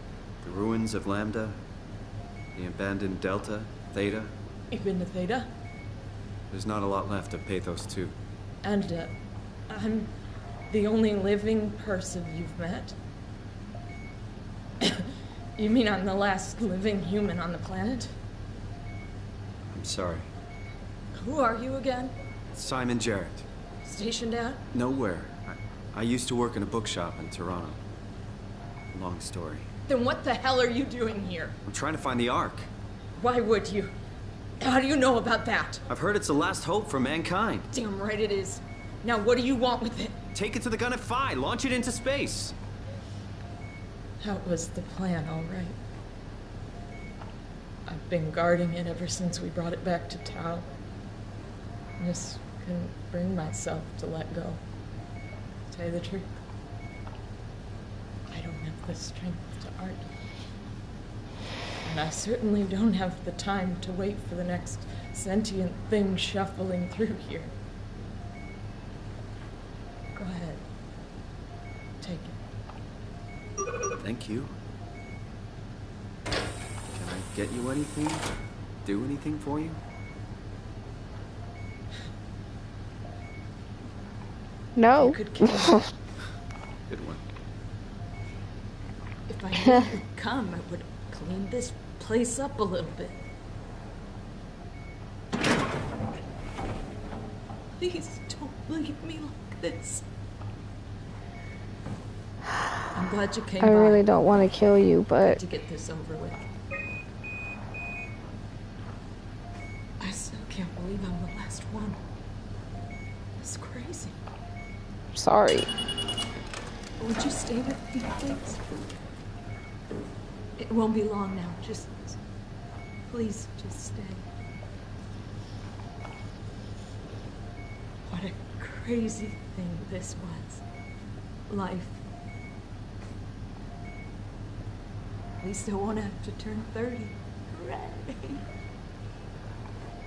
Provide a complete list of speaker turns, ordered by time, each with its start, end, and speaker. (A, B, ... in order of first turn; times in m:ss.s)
0:00.4-0:01.6 A
0:02.5-0:04.3 A
0:04.7-0:05.5 B
0:06.5-0:08.2 A
0:08.6-0:09.1 B
0:09.7-0:10.1 B
0:10.7-0:13.0 B
0:15.6-0:18.1 B
0:19.7-0:20.3 A
0:21.1-0:22.1 B
0:22.5-0:23.4 A
0:23.8-0:24.6 B
0:24.7-0:27.8 A
0:28.9-0:29.7 A
0:29.9-0:31.6 B
0:31.6-0:32.7 A
0:33.2-0:33.9 B
0:34.6-0:35.8 B
0:35.9-0:37.7 A
0:37.7-0:40.2 B
0:40.3-0:42.5 A
0:44.2-0:45.8 B
0:47.8-0:50.7 B
0:52.0-0:54.6 B
0:55.7-0:56.3 B
0:58.3-1:00.1 B
1:01.8-1:07.5 B
1:10.1-1:10.6 B
1:12.0-1:12.4 B
1:14.0-1:14.5 A
1:17.0-1:18.2 A
1:18.8-1:19.8 A
1:24.8-1:25.9 C
1:25.0-1:25.8 B
1:26.9-1:27.2 A
1:29.3-1:33.2 B
1:37.8-1:40.0 B
1:42.4-1:42.8 C
1:42.9-1:44.0 B
1:43.6-1:45.4 C
1:45.2-1:46.5 B
1:50.0-1:52.0 B
1:53.4-1:54.2 B
1:55.1-1:55.7 C
1:57.0-1:58.9 B
2:00.6-2:02.2 B
2:03.0-2:04.2 B
2:08.1-2:10.6 B
2:11.5-2:12.0 B
2:15.4-2:18.4 B